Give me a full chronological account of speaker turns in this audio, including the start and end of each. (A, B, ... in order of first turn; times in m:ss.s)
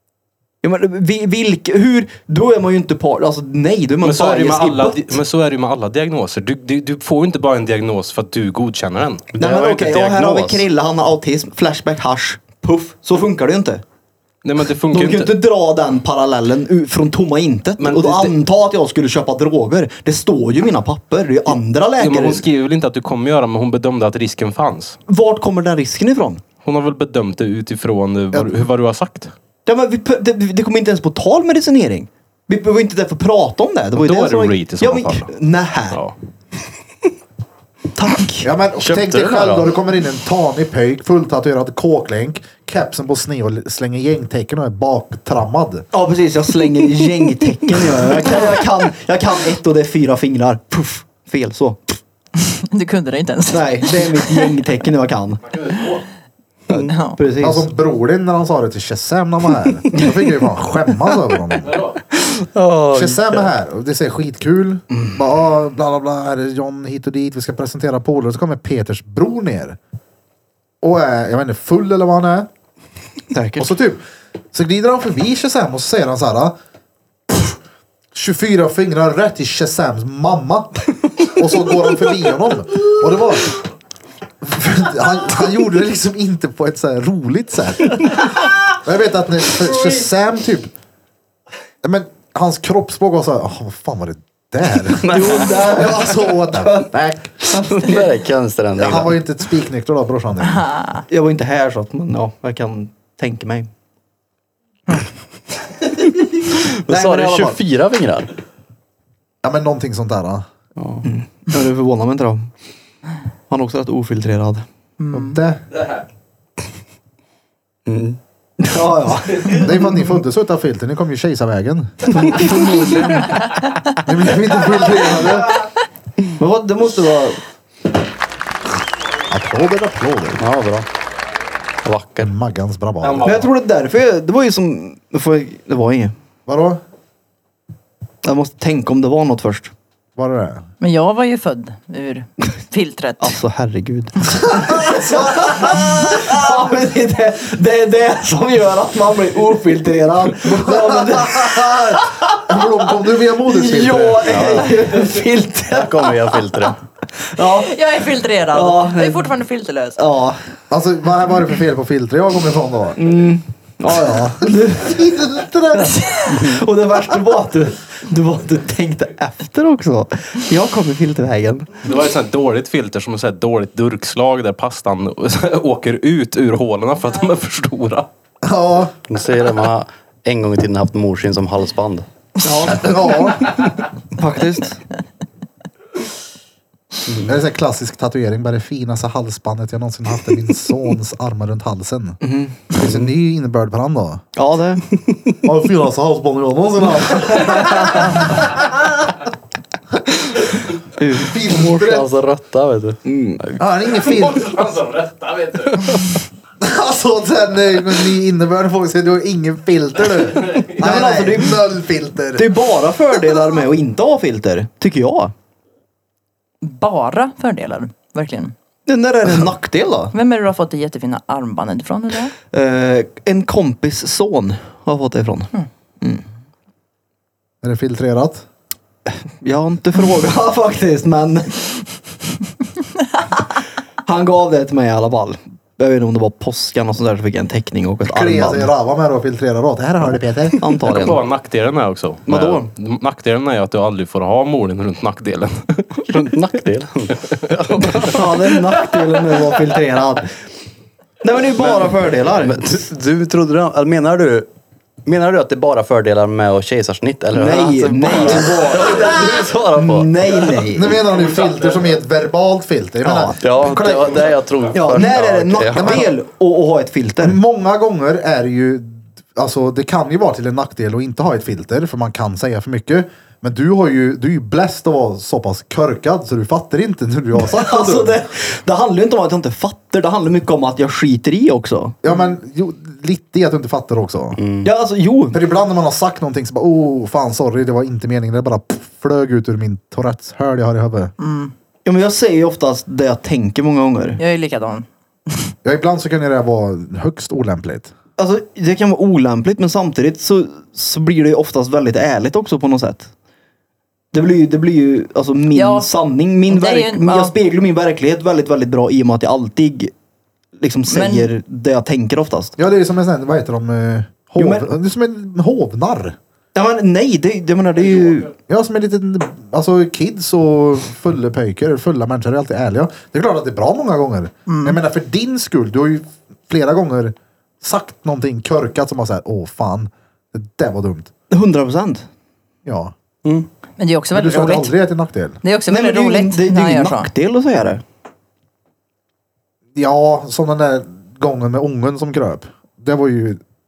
0:00.6-0:05.2 A
0:04.0-0:09.3 B
0:09.3-0:10.6 C
0:09.4-0:13.8 A
0:14.4-0:15.3 B
0:14.9-0:22.4 A
0:17.8-0:18.4 B
0:22.0-0:25.0 B
0:25.1-0:26.4 A
0:26.6-0:29.3 B
0:29.7-0:36.0 A
0:34.0-0:35.3 B
0:37.9-0:38.5 A
0:38.4-0:45.9 D
0:38.8-0:39.7 C
0:45.9-0:52.0 A
0:52.4-0:54.5 E
0:53.5-0:55.4 A
0:55.5-0:56.0 B
0:56.7-0:57.7 A
0:56.7-0:57.2 E
0:57.4-1:01.8 D
0:59.9-1:00.2 A
1:01.6-1:02.0 B
1:02.2-1:03.5 C
1:02.9-1:09.8 D
1:10.8-1:12.5 D
1:13.3-1:13.7 A
1:13.6-1:16.6 D
1:17.3-1:17.6 D
1:18.1-1:23.6 D
1:24.4-1:30.7 D
1:31.8-1:37.7 D
1:34.9-1:35.9 C
1:35.0-1:36.9 A
1:37.5-1:38.0 A
1:37.5-1:39.2 C
1:38.8-1:40.8 D
1:40.6-1:41.0 E
1:41.1-1:43.7 A
1:46.1-1:47.6 A
1:46.5-1:48.3 C
1:49.4-1:50.5 D
1:50.8-1:51.0 C
1:51.0-1:52.5 A
1:53.5-1:54.7 A
1:55.0-1:55.4 E
1:55.1-1:55.6 D
1:57.9-1:58.2 C
1:58.6-1:59.7 A
1:59.6-2:02.7 D
2:02.1-2:03.4 A
2:04.0-2:05.6 D
2:06.4-2:07.4 A
2:09.3-2:10.4 D
2:10.4-2:10.9 C
2:11.8-2:12.3 C
2:12.2-2:13.5 D
2:13.0-2:13.5 B
2:13.2-2:16.1 A
2:16.5-2:16.8 D
2:18.2-2:19.7 A
2:20.2-2:20.7 D
2:20.8-2:23.4 E
2:23.2-2:32.8 A
2:24.7-2:26.0 D
2:30.4-2:34.6 D
2:33.4-2:37.7 A
2:34.2-2:35.0 C
2:35.7-2:36.8 C
2:37.4-2:40.0 E
2:38.5-2:39.3 A
2:40.0-2:40.6 A
2:40.7-2:43.0 D
2:43.0-2:45.1 A
2:43.9-2:46.1 D
2:45.7-2:51.9 A
2:51.8-2:58.1 B
2:58.4-2:58.9 D
2:59.1-3:02.1 C
3:02.4-3:04.8 A
3:02.7-3:03.5 D
3:07.1-3:07.4 C
3:07.3-3:12.2 D
3:12.2-3:13.1 A
3:12.7-3:14.2 D
3:14.4-3:14.9 A
3:15.4-3:18.7 D
3:21.0-3:21.8 A
3:21.2-3:22.1 D
3:21.7-3:23.6 C
3:23.1-3:23.4 A
3:23.6-3:24.6 D
3:24.0-3:26.2 B
3:26.6-3:32.7 D
3:30.4-3:30.8 B
3:30.8-3:31.6 A
3:32.4-3:35.3 A
3:36.6-3:38.5 E
3:38.9-3:40.1 A
3:40.1-3:42.3 E
3:42.5-3:46.2 A
3:47.6-3:48.4 D
3:49.1-3:51.9 A
3:54.0-3:58.7 A
3:58.0-4:00.6 D
4:00.6-4:01.3 A
4:00.8-4:06.3 B
4:02.3-4:02.7 A
4:06.1-4:08.5 C
4:07.3-4:08.1 B
4:08.1-4:10.3 A
4:11.2-4:12.7 A
4:11.6-4:14.5 C
4:15.1-4:20.7 C
4:17.3-4:21.0 A
4:20.7-4:24.3 D
4:23.0-4:23.4 A
4:23.4-4:26.1 C
4:24.7-4:27.4 A
4:25.7-4:26.1 D
4:27.2-4:38.2 D
4:37.4-4:42.0 A
4:42.0-4:44.4 D
4:44.4-4:44.7 C
4:44.6-4:45.4 A
4:45.3-4:51.1 D
4:51.2-4:51.5 E
4:51.8-4:54.2 A
4:54.2-4:55.5 E
4:55.6-4:57.9 D
4:58.2-5:03.1 A
5:04.1-5:09.9 A
5:05.5-5:05.9 E
5:06.5-5:07.3 E
5:10.6-5:12.5 A
5:10.9-5:11.3 E
5:12.6-5:16.2 D
5:14.4-5:14.7 A
5:16.6-5:18.3 A
5:18.5-5:31.1 D
5:24.5-5:24.8 E
5:31.3-5:32.1 A
5:32.6-5:32.9 D
5:33.8-5:34.8 E
5:34.1-5:35.4 D
5:35.4-5:37.1 E
5:35.7-5:37.8 A
5:39.8-5:43.4 D